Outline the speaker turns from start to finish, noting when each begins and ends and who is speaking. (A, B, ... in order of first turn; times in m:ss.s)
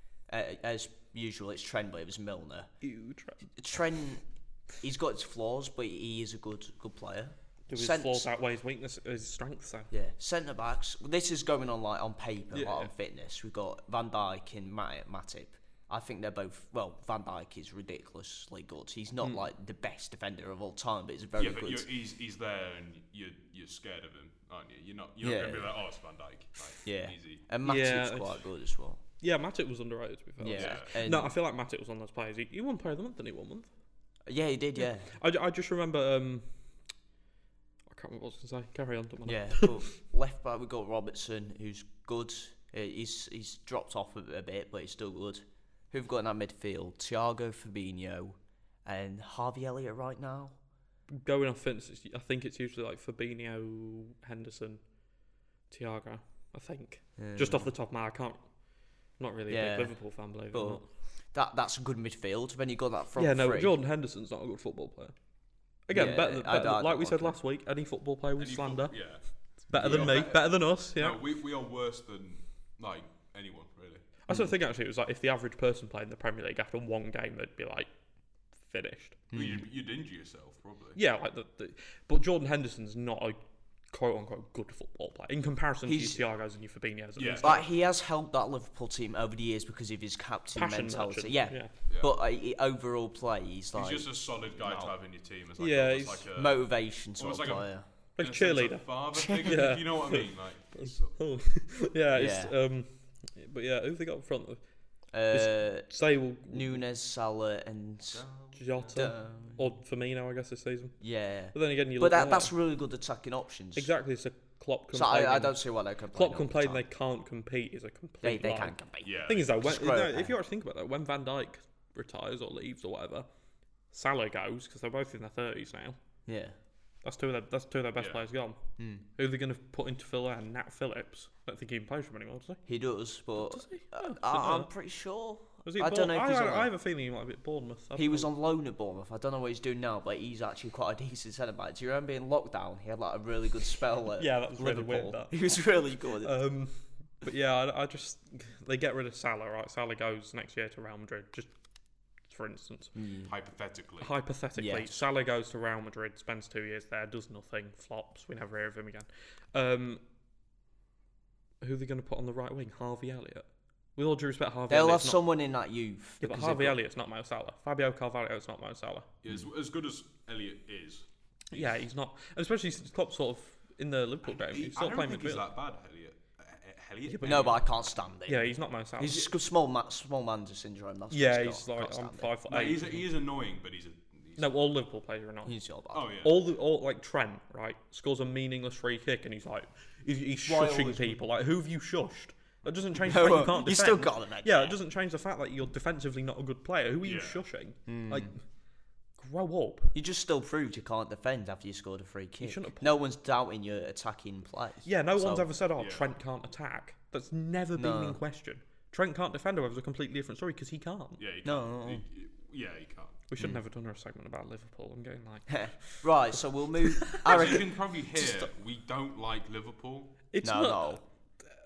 0:00.3-0:02.7 A
0:02.8-0:03.4 B
0:03.6-0:04.2 A
0:04.8-0:08.3 A
0:07.7-0:09.9 B
0:09.9-0:21.9 A
0:12.5-0:12.9 B
0:21.4-0:27.4 C
0:25.2-0:25.7 A
0:26.8-0:29.0 A
0:27.6-0:28.4 B
0:29.2-0:33.7 B
0:30.4-0:31.3 A
0:30.5-0:30.9 C
0:34.3-0:35.1 A
0:34.8-0:36.5 B
0:37.9-0:39.8 B
0:39.2-0:50.6 A
0:51.1-0:54.8 B
0:55.7-0:58.4 B
0:57.2-0:57.7 A
0:59.2-1:00.8 B
0:59.5-1:00.0 A
1:00.5-1:03.7 A
1:03.2-1:05.2 B
1:05.9-1:09.0 B
1:05.9-1:07.4 A
1:08.4-1:14.0 C
1:09.7-1:11.2 B
1:09.8-1:10.2 A
1:14.3-1:17.9 B
1:18.6-1:19.2 B
1:19.3-1:19.6 A
1:19.3-1:21.0 C
1:21.0-1:23.4 B
1:23.9-1:27.6 B
1:25.9-1:26.2 A
1:27.2-1:27.6 C
1:27.4-1:34.9 A
1:30.5-1:31.7 B
1:31.9-1:32.1 C
1:33.7-1:41.2 C
1:35.6-1:36.3 B
1:36.3-1:37.8 A
1:38.2-1:44.6 B
1:42.1-1:42.5 A
1:45.1-1:48.2 A
1:45.3-1:46.8 B
1:48.1-1:49.0 C
1:48.5-1:51.0 B
1:48.9-1:49.6 A
1:51.0-1:53.9 A
1:51.5-1:52.5 B
1:53.7-1:55.6 B
1:54.9-1:56.8 A
1:56.1-2:03.3 B
1:58.2-2:00.3 A
1:59.0-1:59.6 C
2:03.9-2:06.0 B
2:06.3-2:06.6 A
2:07.0-2:08.6 B
2:08.0-2:08.2 C
2:08.8-2:09.0 A
2:09.2-2:12.6 B
2:12.6-2:16.7 A
2:13.4-2:14.7 B
2:15.6-2:18.3 B
2:18.0-2:26.4 A
2:24.2-2:25.4 B
2:26.2-2:31.5 B
2:32.3-2:32.9 B
2:33.0-2:33.3 A
2:33.2-2:34.1 C
2:34.0-2:40.0 B
2:34.6-2:35.0 A
2:41.6-2:45.2 B
2:44.7-2:46.8 A
2:46.2-2:49.1 B
2:49.2-2:51.7 C
2:51.5-2:55.4 B
2:54.2-2:57.6 C
2:57.0-2:57.6 B
2:57.2-3:02.4 A
2:58.2-2:59.3 B
3:01.1-3:03.0 B
3:02.5-3:04.5 C
3:04.4-3:05.5 B
3:05.4-3:06.1 A
3:05.9-3:06.4 C
3:06.2-3:18.4 B
3:10.4-3:11.2 A
3:13.0-3:14.8 A
3:17.0-3:17.4 C
3:17.9-3:18.3 A
3:19.2-3:19.9 B
3:19.9-3:25.5 A
3:22.4-3:22.9 B
3:24.8-3:31.2 B
3:25.8-3:26.1 C
3:27.8-3:28.2 A
3:31.2-3:33.2 C
3:31.4-3:32.0 A
3:33.3-3:36.0 B
3:35.5-3:38.5 A
3:36.8-3:37.6 B
3:37.2-3:40.1 C
3:40.3-3:41.0 B
3:40.4-3:41.0 A